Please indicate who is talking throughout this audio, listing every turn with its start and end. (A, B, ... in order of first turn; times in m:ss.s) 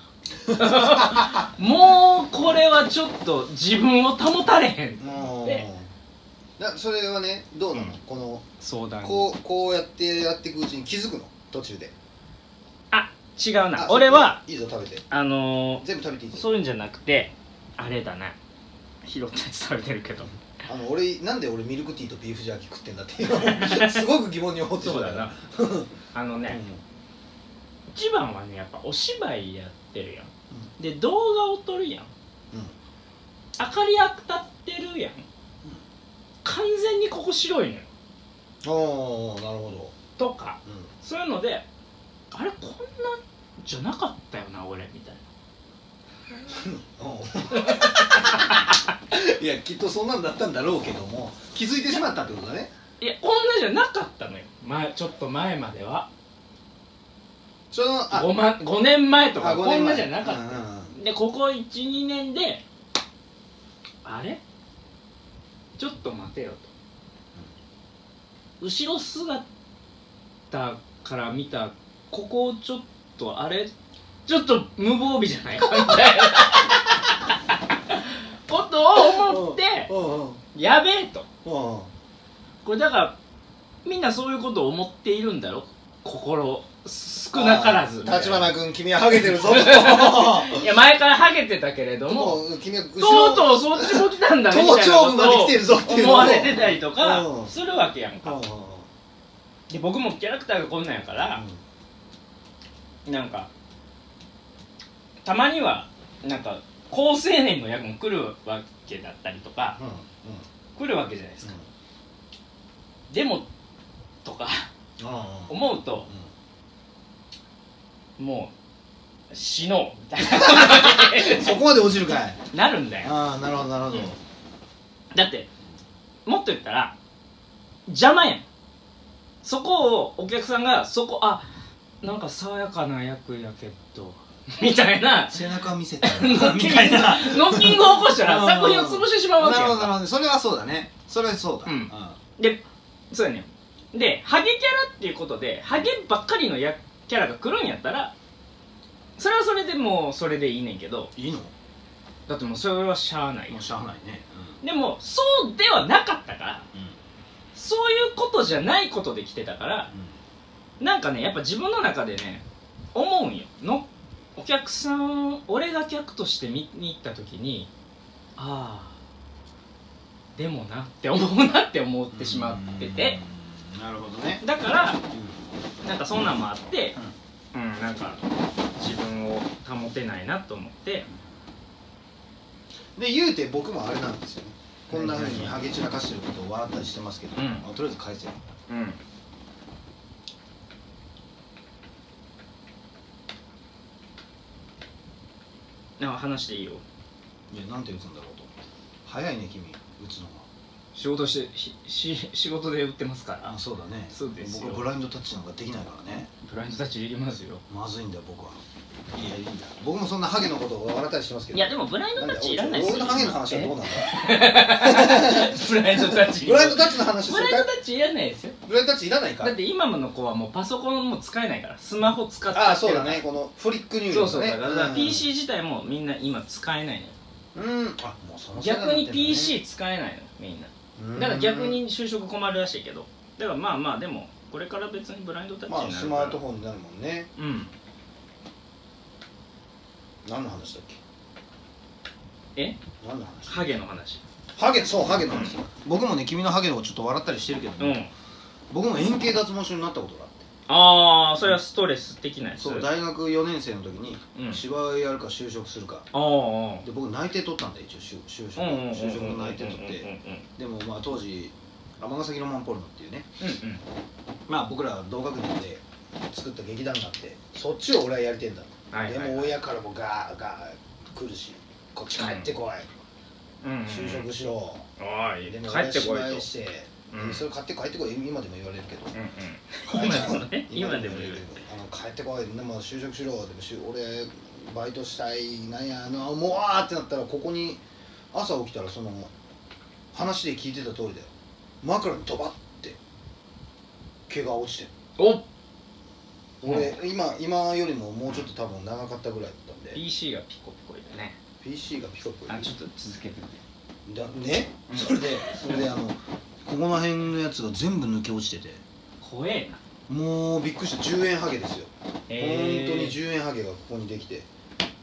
0:00.4-0:01.5 A
0:00.5-0:05.6 B
0:05.0-0:05.9 A
0:06.6-0:08.4 A
0:08.6-0:09.3 B
0:09.0-0:11.9 A
0:12.9-0:14.4 B
0:13.8-0:15.0 A
0:15.1-0:18.4 B
0:15.8-0:16.5 A
0:19.0-0:20.3 B
0:20.7-0:25.9 A
0:23.3-0:24.0 B
0:24.8-0:25.3 B
0:26.1-0:26.6 B
0:26.5-0:26.8 A
0:27.9-0:32.1 B
0:33.6-0:35.2 B
0:36.4-0:37.9 B
0:38.6-0:40.0 A
0:40.2-0:41.6 B
0:42.3-0:45.2 B
0:46.5-0:52.7 A
0:47.6-0:48.7 B
0:53.0-0:56.1 B
0:57.7-0:58.3 A
0:58.1-1:02.6 B
0:59.4-1:01.0 A
1:04.0-1:04.4 B
1:05.8-1:06.7 B
1:08.6-1:09.4 B
1:10.5-1:13.7 B
1:14.2-1:19.9 B
1:19.0-1:20.4 A
1:20.5-1:21.2 B
1:21.4-1:21.9 A
1:22.6-1:23.2 B
1:23.8-1:28.5 B
1:27.3-1:30.7 A
1:29.1-1:32.4 B
1:32.1-1:37.5 A
1:33.0-1:38.4 B
1:38.2-1:38.9 A
1:39.7-1:41.4 B
1:41.3-1:41.6 A
1:43.0-1:43.5 B
1:45.2-1:49.8 B
1:49.8-1:50.4 A
1:50.8-1:51.5 B
1:53.1-1:53.5 B
1:54.2-1:54.7 B
1:55.0-1:56.3 A
1:55.5-1:56.1 B
1:58.2-1:58.5 B
1:59.3-2:01.5 B
2:00.2-2:02.4 A
2:02.5-2:03.1 B
2:03.0-2:04.2 A
2:05.1-2:05.5 B
2:06.2-2:06.9 B
2:07.9-2:08.5 B
2:09.4-2:11.5 B
2:12.0-2:15.4 B
2:15.3-2:22.2 A
2:16.0-2:20.0 B
2:21.6-2:28.1 B
2:29.2-2:31.1 B
2:31.2-2:31.5 A
2:32.3-2:33.6 B
2:33.5-2:34.6 A
2:34.6-2:36.6 B
2:37.5-2:39.9 B
2:39.9-2:40.2 A
2:40.8-2:47.7 B
2:48.4-2:49.0 B
2:50.4-2:53.2 B
2:52.1-2:54.4 A
2:54.4-2:55.0 B
2:55.1-2:55.4 A
2:55.8-2:57.0 B
2:57.5-2:58.2 B
2:58.8-3:01.1 B
3:03.0-3:08.4 A
3:04.9-3:05.6 B
3:07.3-3:07.7 B
3:08.7-3:09.0 B
3:16.0-3:16.8 B
3:17.5-3:18.5 A
3:19.0-3:20.5 A
3:20.9-3:23.5 B
3:23.4-3:26.3 A
3:24.1-3:24.9 B
3:26.4-3:27.6 B
3:27.7-3:28.6 A
3:29.1-3:37.7 A
3:31.5-3:38.6 B
3:38.6-3:39.5 A
3:39.4-3:43.2 B
3:42.5-3:45.2 A
3:44.1-3:47.1 B
3:47.5-3:49.6 A
3:48.6-3:56.4 B
3:51.0-3:51.8 A
3:55.7-3:57.3 A
3:57.4-3:57.7 B
4:00.2-4:01.0 A
4:03.0-4:03.7 A
4:03.5-4:04.2 B
4:04.6-4:08.0 A
4:05.3-4:05.6 B
4:07.8-4:08.1 B
4:08.7-4:10.4 A
4:10.7-4:12.9 B
4:12.6-4:16.1 A
4:14.3-4:14.6 B
4:16.1-4:16.8 B
4:16.8-4:23.3 A
4:18.6-4:20.4 B
4:23.4-4:23.8 B
4:24.5-4:32.9 A
4:28.9-4:29.5 B
4:32.2-4:32.5 B
4:33.6-4:34.3 B
4:33.8-4:34.8 A
4:35.0-4:36.5 B
4:35.4-4:39.1 A
4:37.1-4:37.4 B
4:39.1-4:41.4 B
4:39.9-4:47.8 A
4:48.3-4:49.3 A
4:50.1-4:51.3 A
4:51.8-4:53.0 A
4:54.3-4:54.9 A
4:55.2-4:55.4 B
4:56.6-5:00.0 A
4:56.6-4:57.0 B
4:59.9-5:01.4 B
5:01.6-5:02.7 A
5:02.5-5:03.6 B
5:04.0-5:08.8 A
5:04.9-5:05.9 B
5:09.2-5:09.8 B
5:10.1-5:14.5 A
5:12.3-5:13.2 B